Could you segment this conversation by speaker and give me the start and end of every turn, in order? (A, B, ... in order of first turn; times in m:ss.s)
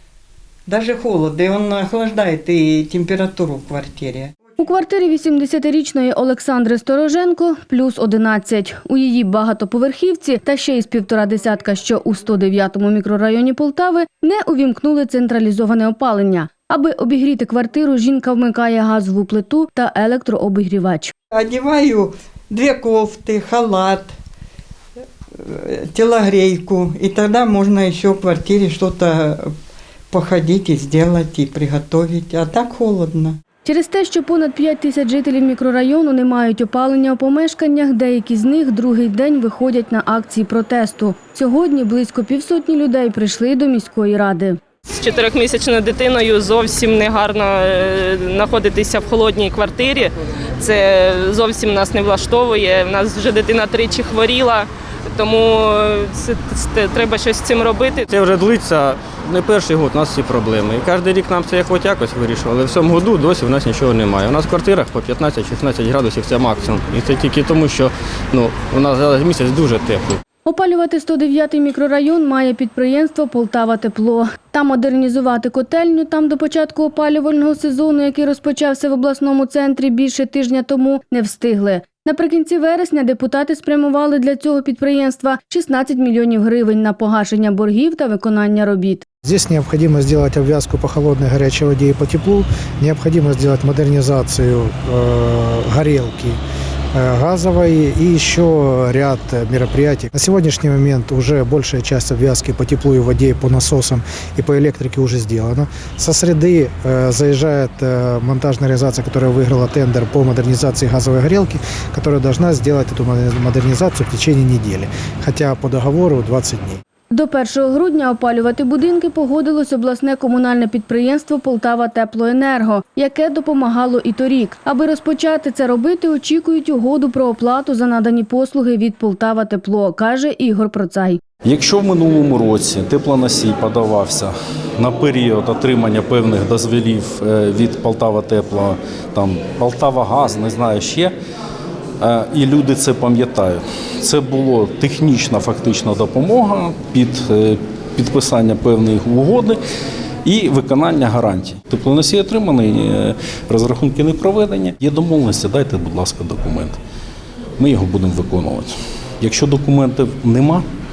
0:00.7-0:04.5 A
0:04.6-0:21.1 B
0:21.3-0:24.1 A
0:25.4-0:29.5 A
0:30.1-0:33.4 A
0:33.6-0:44.6 B
0:44.9-0:58.1 C
0:58.1-1:10.2 D
1:10.5-1:29.0 B
1:29.2-1:36.4 E
1:37.0-1:56.8 E
1:57.1-2:11.2 B
2:11.4-2:21.2 F
2:22.0-2:29.6 F
2:30.2-2:36.8 F
2:37.6-2:40.6 F